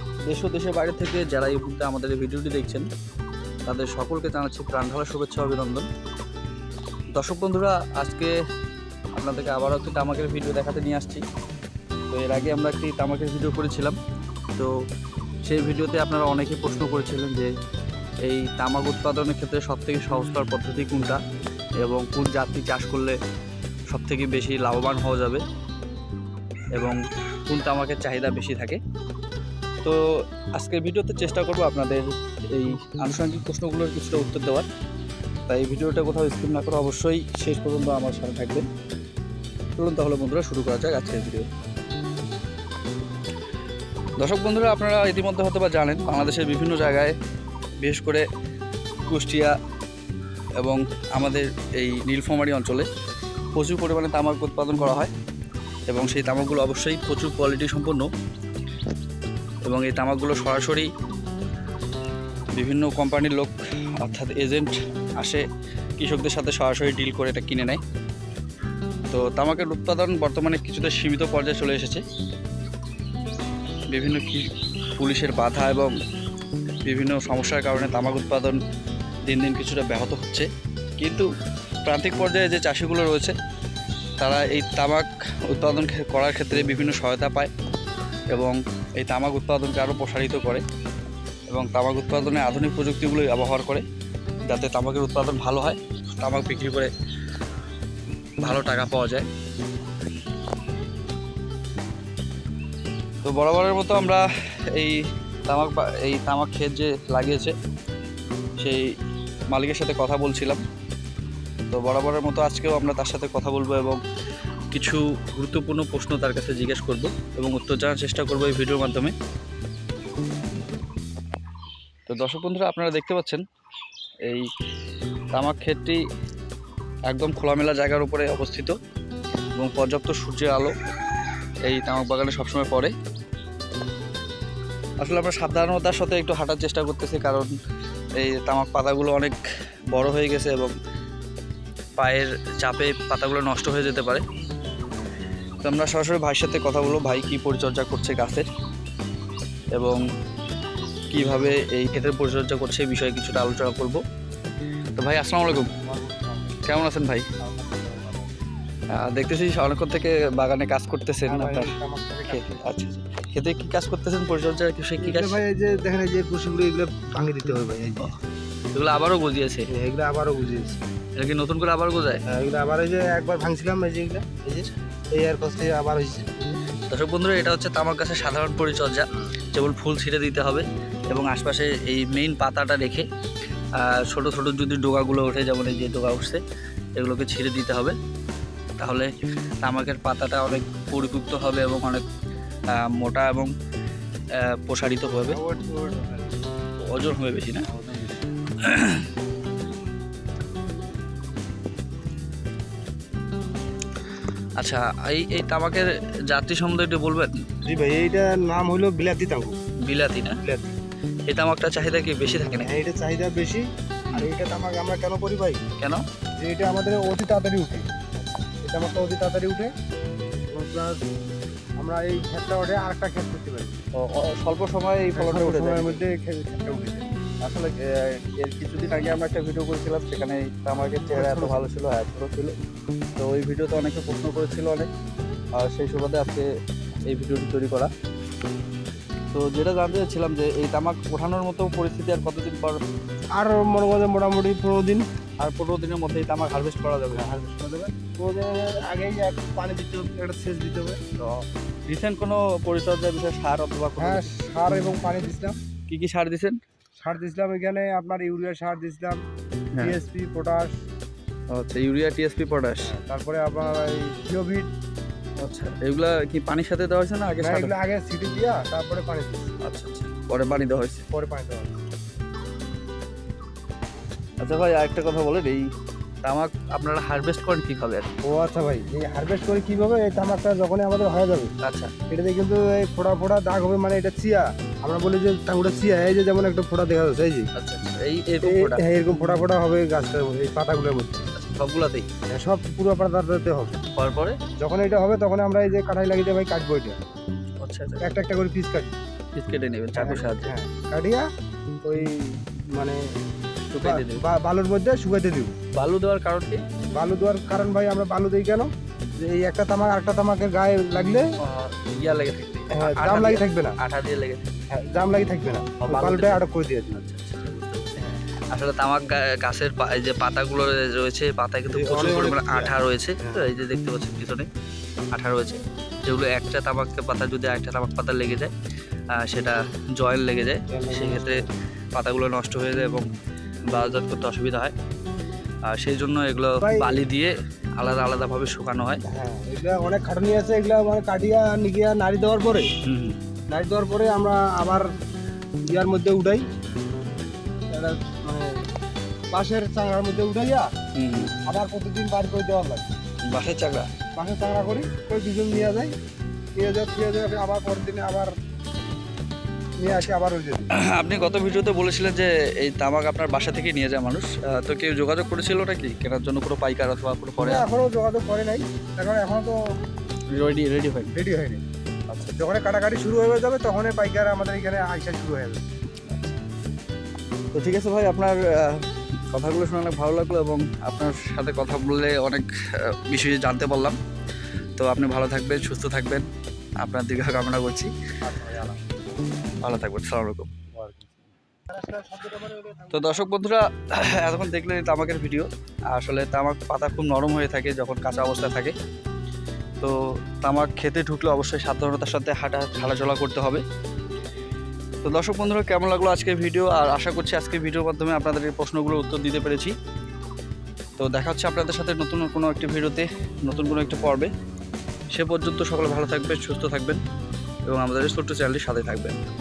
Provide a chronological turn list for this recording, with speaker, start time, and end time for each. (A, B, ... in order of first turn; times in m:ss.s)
0:00.2-0:02.9 A
0:03.7-0:05.9 A
0:07.2-0:08.4 A
0:09.2-0:11.2 A
0:12.1-0:14.0 A
0:15.4-0:17.5 A
0:18.2-0:21.2 A
0:21.8-0:23.2 A
0:23.9-0:25.4 A
0:26.7-0:28.8 A
0:30.6-0:34.7 A
0:35.5-0:38.7 A
0:39.8-0:41.5 A
0:44.2-0:47.1 A
0:47.8-0:48.3 A
0:49.1-0:49.6 A
0:50.6-0:52.9 A
0:53.6-0:55.1 A
0:55.9-0:58.1 A
0:59.6-1:00.9 A
1:02.5-1:05.4 A
1:06.0-1:07.8 A
1:09.1-1:12.0 A
1:13.9-1:15.9 A
1:16.8-1:18.6 A
1:19.3-1:20.5 A
1:21.0-1:21.3 A
1:21.8-1:23.4 A
1:24.2-1:27.5 A
1:28.3-1:30.6 A
1:31.5-1:33.8 A
1:34.5-1:36.9 A
1:38.4-1:39.3 A
1:43.2-1:47.6 A
1:48.6-1:48.9 A
1:49.5-1:50.6 A
1:51.7-1:54.0 A
1:54.7-1:59.1 A
2:02.1-2:03.4 A
2:05.3-2:06.0 A
2:07.1-2:08.8 A
2:09.6-2:10.8 A
2:11.6-2:12.9 A
2:15.0-2:17.5 A
2:18.2-2:19.4 A
2:19.9-2:20.7 A
2:22.0-2:24.2 A
2:25.6-2:28.5 A
2:29.7-2:30.0 A
2:31.1-2:34.0 A
2:35.0-2:35.7 A
2:35.8-2:36.6 B
2:36.6-2:37.3 A
2:37.4-2:38.4 B
2:38.9-2:41.8 A
2:41.3-2:42.7 B
2:42.3-2:45.4 A
2:45.0-2:48.1 B
2:48.7-2:49.7 A
2:49.7-2:50.8 B
2:51.2-2:52.2 A
2:52.3-2:56.5 B
2:56.9-3:03.1 A
3:03.8-3:06.4 A
3:07.0-3:08.0 A
3:08.8-3:09.1 A
3:09.6-3:12.0 A
3:12.7-3:13.5 A
3:14.4-3:15.4 A
3:15.2-3:16.4 B
3:16.8-3:17.7 A
3:17.7-3:18.2 B
3:18.6-3:19.1 A
3:24.6-3:27.5 A
3:27.6-3:29.5 B
3:29.8-3:30.4 A
3:30.4-3:30.7 B
3:31.3-3:32.7 A
3:32.6-3:35.6 B
3:35.8-3:36.0 A
3:36.4-3:37.8 B
3:38.6-3:39.7 B
3:40.5-3:41.0 B
3:41.8-3:43.8 B
3:44.0-3:46.0 A
3:45.2-3:47.1 B
3:47.4-3:52.6 A
3:51.1-3:51.7 B
3:53.2-3:54.9 A
3:55.5-3:56.5 A
3:57.0-3:57.9 A
3:59.3-4:02.8 A
4:03.4-4:05.1 B
4:05.4-4:07.4 A
4:07.1-4:11.0 B
4:11.2-4:14.3 A
4:14.0-4:15.6 B
4:15.9-4:16.6 A
4:17.0-4:19.2 B
4:19.8-4:20.7 B
4:21.5-4:22.9 A
4:22.8-4:24.7 B
4:25.4-4:27.7 A
4:27.4-4:29.5 B
4:29.6-4:31.1 A
4:31.1-4:31.7 B
4:34.4-4:35.7 A
4:36.2-4:38.1 A
4:38.2-4:41.5 B
4:41.6-4:41.9 A
4:42.1-4:47.5 B
4:47.6-4:48.8 A
4:48.4-4:51.2 B
4:51.3-4:52.1 A
4:52.3-4:53.8 B
4:54.0-4:54.4 A
4:54.6-4:57.0 B
4:57.6-4:58.1 A
4:58.0-4:58.9 B
4:59.4-5:00.5 A
4:59.9-5:01.3 B
5:01.8-5:03.0 B
5:03.7-5:04.2 A
5:03.8-5:05.6 B
5:05.7-5:06.6 A
5:06.9-5:11.2 B
5:11.4-5:14.6 A
5:12.7-5:13.8 B
5:14.7-5:17.0 B
5:15.8-5:24.5 A
5:21.7-5:23.5 B
5:25.1-5:28.5 A
5:29.1-5:33.1 A
5:30.7-5:31.5 B
5:33.7-5:34.7 A
5:35.7-5:39.0 A
5:36.6-5:37.0 B
5:39.1-5:42.7 B
5:42.8-5:43.2 A
5:43.5-5:44.8 B
5:45.7-5:46.4 B
5:47.7-5:48.6 B
5:49.3-5:50.7 B
5:51.0-5:51.4 A
5:51.5-5:52.9 B
5:53.3-5:53.9 A
5:54.2-5:55.9 B
5:56.6-5:58.3 B
5:59.8-6:00.7 B
5:59.9-6:00.1 A
6:00.7-6:07.7 A
6:07.4-6:09.6 B
6:10.3-6:11.2 A
6:11.1-6:11.6 B
6:12.1-6:12.4 A
6:12.4-6:15.7 B
6:16.1-6:16.4 A
6:17.5-6:24.0 A
6:24.8-6:26.3 A
6:26.8-6:27.9 A
6:28.2-6:28.9 B
6:29.6-6:30.5 A
6:30.7-6:33.3 B
6:32.9-6:38.8 A
6:39.8-6:43.6 A
6:45.0-6:49.8 A
6:51.0-6:54.3 A
6:55.1-6:57.0 A
6:57.7-6:59.2 A